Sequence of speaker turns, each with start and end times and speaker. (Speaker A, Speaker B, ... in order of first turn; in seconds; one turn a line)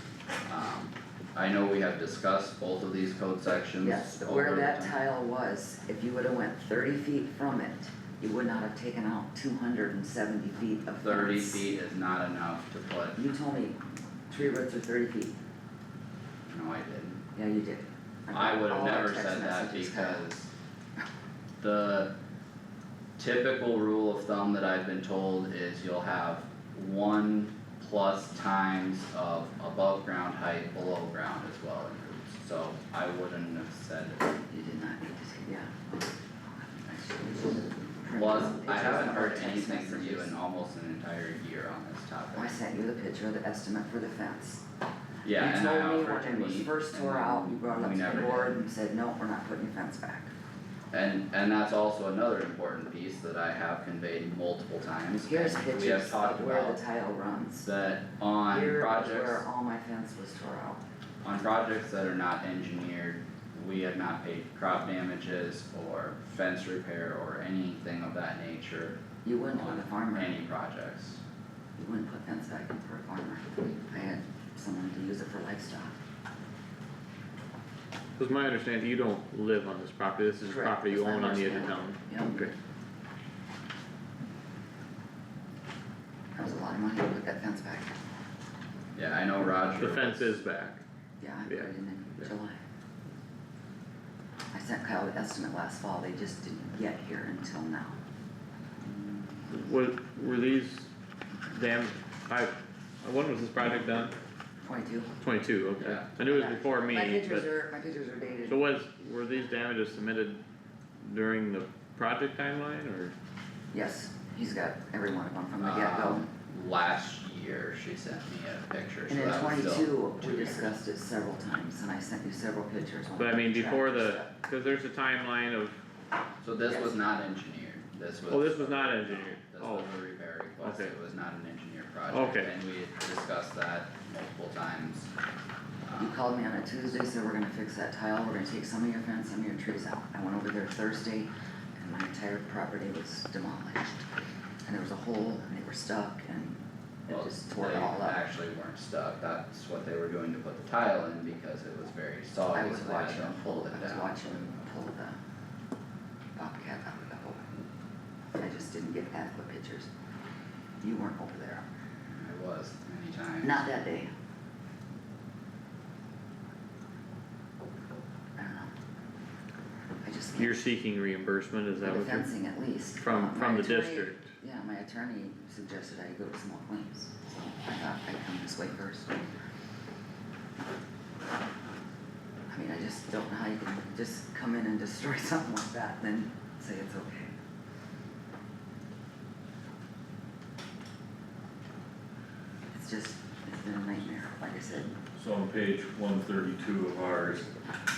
Speaker A: 0.5-5.0
Speaker B: 3.8-11.6
Speaker A: 11.0-13.2
Speaker B: 13.2-15.3
Speaker A: 16.5-17.2
Speaker B: 17.3-20.3
Speaker A: 18.3-20.5
Speaker A: 21.6-22.1
Speaker A: 23.2-34.4
Speaker B: 34.5-40.3
Speaker A: 38.1-42.6
Speaker B: 42.3-44.6
Speaker A: 45.2-48.5
Speaker B: 45.3-50.3
Speaker A: 50.9-56.8
Speaker B: 55.2-57.7
Speaker A: 57.6-59.5
Speaker B: 58.5-60.8
Speaker A: 61.2-69.0
Speaker B: 69.2-70.4
Speaker A: 69.5-71.2
Speaker B: 71.8-75.9
Speaker C: 78.2-82.5
Speaker B: 80.5-82.5
Speaker B: 86.3-88.0
Speaker A: 89.0-90.3
Speaker C: 89.8-90.8
Speaker B: 91.2-92.6
Speaker C: 91.5-92.3
Speaker B: 94.5-98.0
Speaker C: 99.5-100.9
Speaker C: 101.5-104.1
Speaker B: 104.6-105.1
Speaker C: 105.2-107.5
Speaker A: 105.8-106.1
Speaker B: 106.3-108.6
Speaker C: 108.5-110.4
Speaker C: 111.0-113.1
Speaker B: 113.7-116.3
Speaker A: 115.6-120.7
Speaker B: 119.1-124.3
Speaker C: 123.2-125.8
Speaker A: 126.4-135.1
Speaker B: 126.7-126.9
Speaker C: 128.3-129.9
Speaker C: 130.6-130.9
Speaker C: 132.1-132.5
Speaker A: 135.9-136.2
Speaker B: 136.0-144.0
Speaker B: 144.7-148.2
Speaker A: 147.1-154.6
Speaker B: 152.5-155.2
Speaker B: 156.3-157.4
Speaker B: 158.3-159.9
Speaker B: 160.8-161.7
Speaker A: 162.2-163.7
Speaker B: 163.4-164.1
Speaker B: 168.4-168.7
Speaker B: 170.0-170.6
Speaker C: 170.3-172.3
Speaker B: 171.8-179.3
Speaker C: 172.9-174.3
Speaker B: 182.5-187.3
Speaker B: 192.7-195.0
Speaker D: 195.2-197.5